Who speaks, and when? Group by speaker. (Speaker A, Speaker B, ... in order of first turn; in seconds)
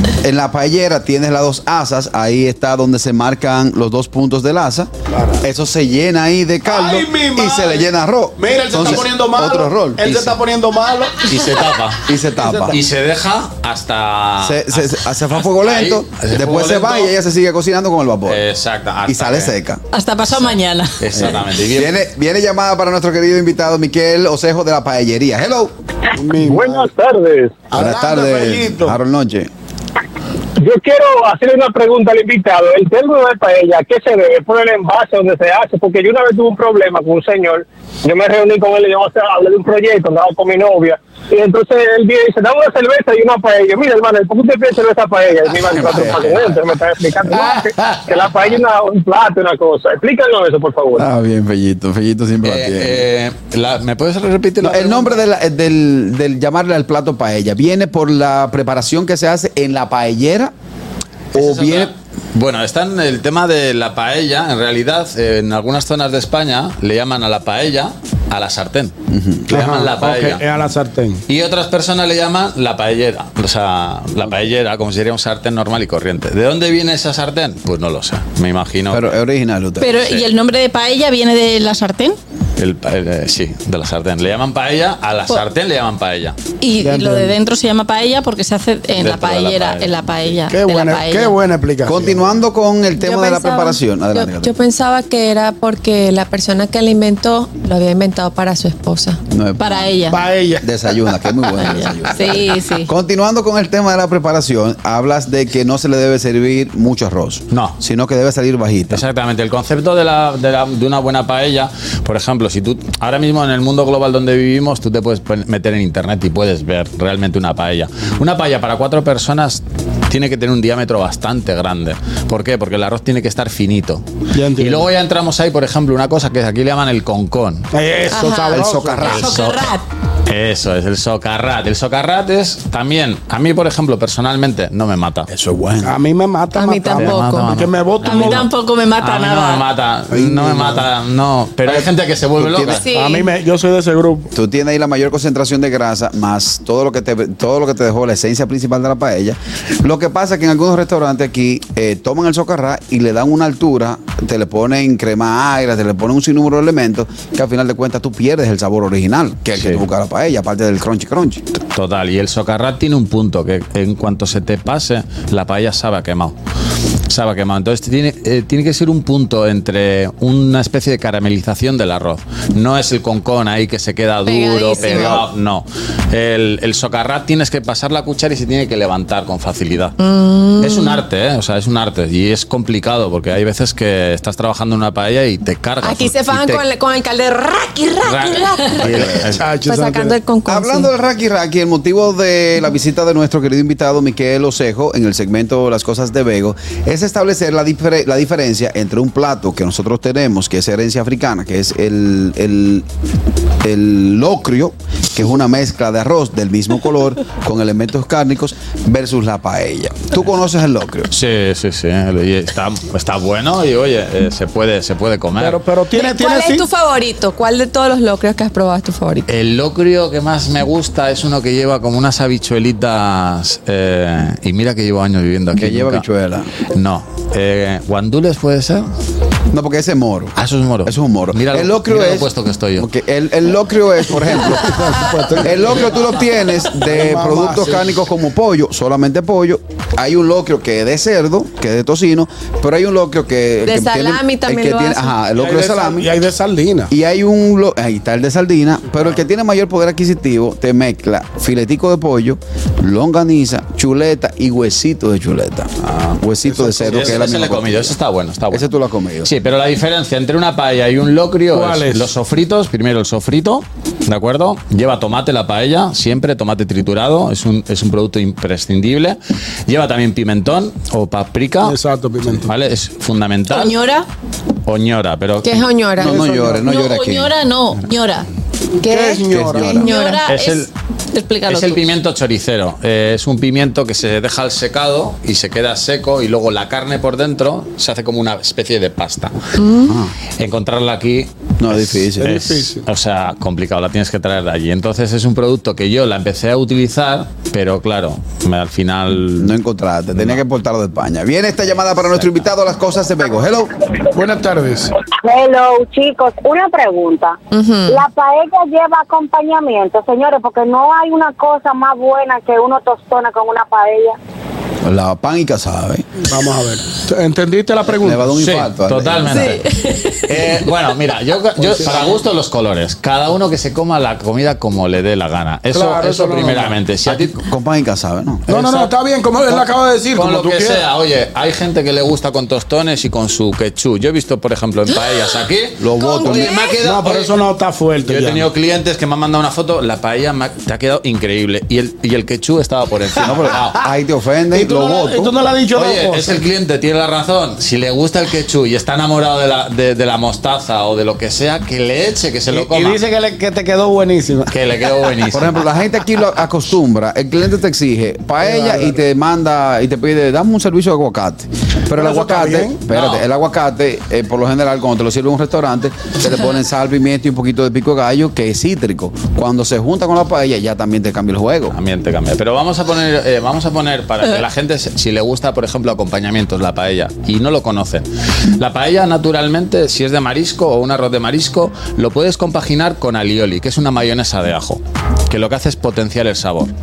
Speaker A: 0.2-4.9, 5.4-10.3, 12.0-12.8, 14.4-18.4, 19.1-19.8, 21.1-25.7, 27.7-29.5, 45.7-46.6, 47.3-48.3, 51.0-53.0, 54.6-60.5, 61.3-61.9, 69.1-69.6, 78.9-79.9, 91.8-94.5, 99.3-100.0, 100.6-109.0, 128.5-129.4, 135.3-135.9, 142.4-142.8, 144.3-161.4, 174.8-175.2, 188.8-189.3, 190.4-202.8, 203.6-211.1, 225.6-226.5, 229.5-234.8, 235.4-246.1, 246.9-257.9, 258.5-259.3, 276.0-277.3, 279.4-279.8, 289.9-290.1, 291.6-292.3, 299.4-303.7, 314.8-316.1, 318.0-319.6, 327.1-328.4, 335.8-336.6, 343.2-345.3, 355.3-371.8
Speaker B: 5.1-5.4, 6.6-11.2, 12.3-12.7, 26.1-26.9, 27.7-28.9, 69.5-71.2, 86.8-87.3, 90.5-92.2, 100.1-100.7, 124.3-124.9, 127.7-129.2, 135.8-138.5, 140.1-140.9, 142.9-144.3, 189.3-190.2, 215.3-216.7, 234.4-236.0, 236.8-237.9, 245.4-246.9, 256.4-257.2, 261.5-262.1, 271.6-272.5, 276.0-276.7, 278.8-279.9, 292.2-292.8, 304.1-304.9, 316.2-318.3, 321.6-322.2, 325.7-326.8, 328.5-330.8, 336.8-338.5, 344.5-346.4, 352.5-354.5, 358.4-358.9, 361.9-362.8
Speaker C: 11.2-12.1, 12.7-17.1, 18.2-19.5, 21.0-22.0, 52.4-55.2, 61.3-68.9, 69.5-70.4, 71.3-79.1, 82.6-86.4, 88.9-90.4, 107.5-107.8, 108.9-124.0, 124.6-127.7, 129.0-129.6, 130.3-135.3, 136.8-142.8, 159.5-159.8, 161.7-166.3, 167.1-179.9, 180.6-186.6, 188.0-189.4, 211.1-215.6, 219.3-226.1, 226.7-228.8, 230.3-232.9, 256.9-258.7, 259.2-271.8, 272.3-273.8, 274.6-275.7, 280.2-280.7, 281.5-289.3, 290.4-299.6, 300.1-300.4, 301.7-302.5, 318.4-327.4, 328.5-328.9, 329.4-337.3, 338.1-343.8, 345.7-353.0, 354.5-355.6, 362.9-363.2, 371.7-386.7
Speaker D: 19.9-21.0, 79.8-82.2, 86.6-91.4, 99.6-100.2, 101.5-102.9, 129.0-129.8, 138.0-139.7, 273.5-274.1, 276.6-278.3, 279.8-281.8, 319.7-320.1
Speaker E: 26.4-27.7, 30.6-51.1
Speaker F: 93.0-99.2, 128.1-128.6, 136.5-137.5, 142.6-143.3, 174.2-175.2, 180.0-181.0, 185.8-190.9, 215.9-219.2, 243.6-245.1, 275.4-276.2, 278.8-280.2, 289.6-289.9, 307.5-308.0, 319.3-319.6
Speaker G: 305.1-307.4, 307.9-314.2